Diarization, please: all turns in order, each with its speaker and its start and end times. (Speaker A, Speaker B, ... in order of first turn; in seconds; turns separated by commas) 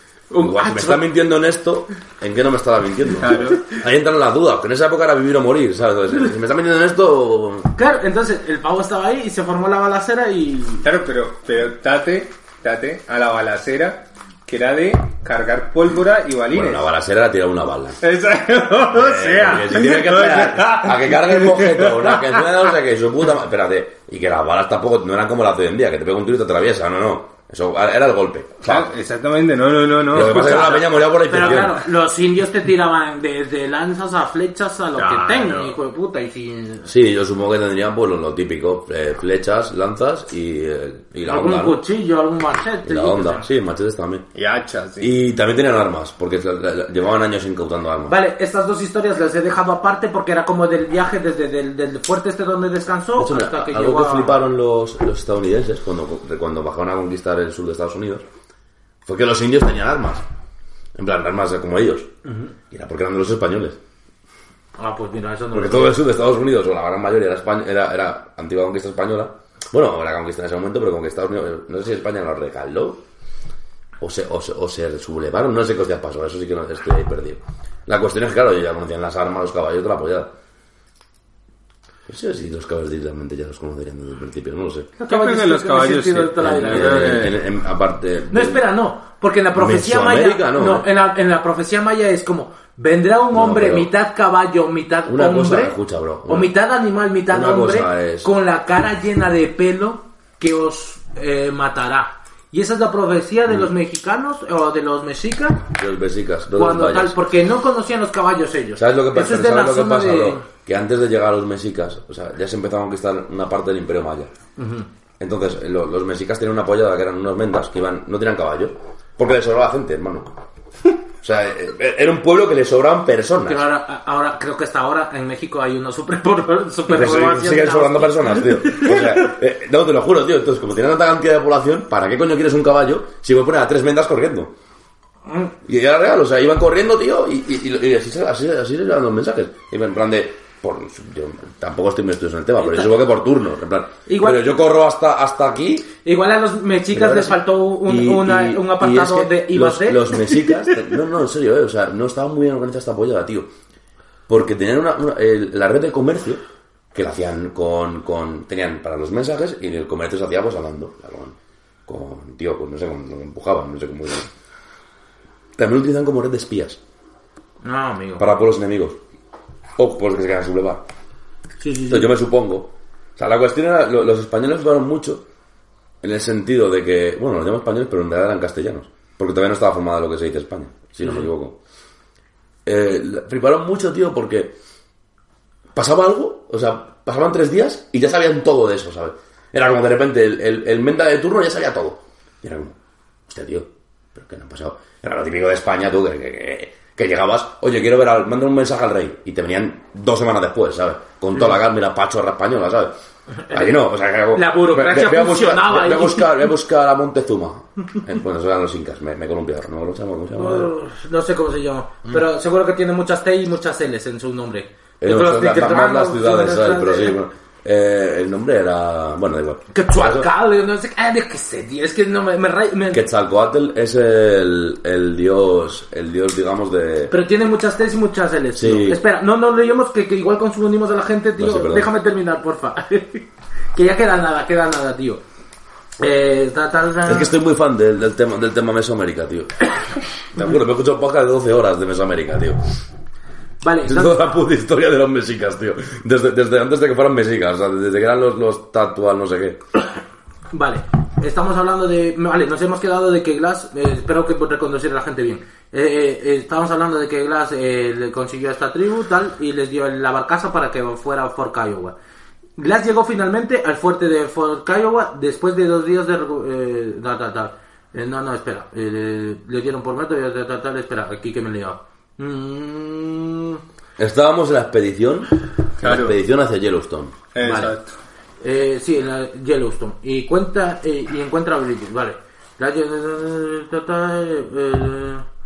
Speaker A: 0.3-1.1, Speaker B: 0.4-7.7, Speaker C: 3.2-3.6, Speaker A: 7.8-10.8, Speaker C: 10.8-16.9, Speaker B: 16.5-18.0, Speaker C: 18.0-22.6, Speaker B: 18.9-28.9, Speaker C: 28.6-30.8, Speaker B: 30.1-31.8, Speaker A: 30.1-36.9, Speaker C: 35.0-35.7, Speaker B: 36.8-41.8, Speaker A: 41.2-43.5, Speaker B: 42.8-44.3, Speaker C: 44.3-45.1, Speaker B: 45.0-48.2, Speaker A: 48.1-54.4, Speaker B: 53.2-58.2, Speaker B: 59.0-60.2, Speaker B: 61.0-62.1, Speaker A: 62.2-62.5, Speaker B: 62.7-63.8, Speaker A: 64.8-66.0, Speaker B: 65.5-73.0, Speaker B: 74.0-80.3, Speaker B: 82.1-84.9, Speaker A: 85.0-87.3, Speaker C: 85.1-87.4, Speaker B: 86.4-88.6, Speaker A: 88.3-105.6, Speaker B: 89.5-90.9, Speaker B: 93.3-93.9, Speaker B: 95.1-96.5, Speaker B: 97.3-98.3, Speaker B: 105.7-107.2, Speaker A: 106.5-110.4, Speaker B: 108.8-114.3, Speaker A: 114.6-114.9, Speaker B: 115.2-120.4, Speaker B: 121.2-123.7, Speaker A: 123.5-129.3, Speaker B: 126.9-134.5, Speaker A: 135.3-135.5, Speaker B: 135.6-145.9, Speaker A: 142.6-142.9, Speaker A: 144.1-144.5, Speaker A: 146.0-150.8, Speaker B: 146.9-153.5, Speaker B: 154.3-156.4, Speaker B: 156.9-164.3, Speaker B: 165.6-166.8, Speaker A: 167.6-168.2, Speaker B: 168.2-169.0, Speaker B: 169.8-170.9, Speaker A: 171.6-172.1, Speaker B: 171.9-175.3, Speaker B: 176.0-181.6, Speaker B: 182.7-184.6, Speaker B: 185.7-192.8, Speaker B: 193.3-202.9, Speaker B: 203.5-210.7, Speaker A: 204.3-206.5, Speaker A: 210.3-217.1, Speaker B: 215.0-220.3, Speaker A: 219.7-223.0, Speaker B: 222.9-227.2, Speaker A: 227.1-235.2, Speaker B: 228.6-229.0, Speaker B: 231.4-231.9, Speaker A: 236.0-237.3, Speaker B: 237.1-239.7, Speaker B: 240.3-242.6, Speaker A: 243.6-244.3, Speaker B: 243.8-249.6, Speaker A: 250.5-261.9, Speaker A: 262.6-273.6, Speaker B: 274.0-277.2, Speaker C: 275.8-276.1, Speaker C: 277.3-278.0, Speaker A: 277.4-277.8, Speaker A: 278.4-285.2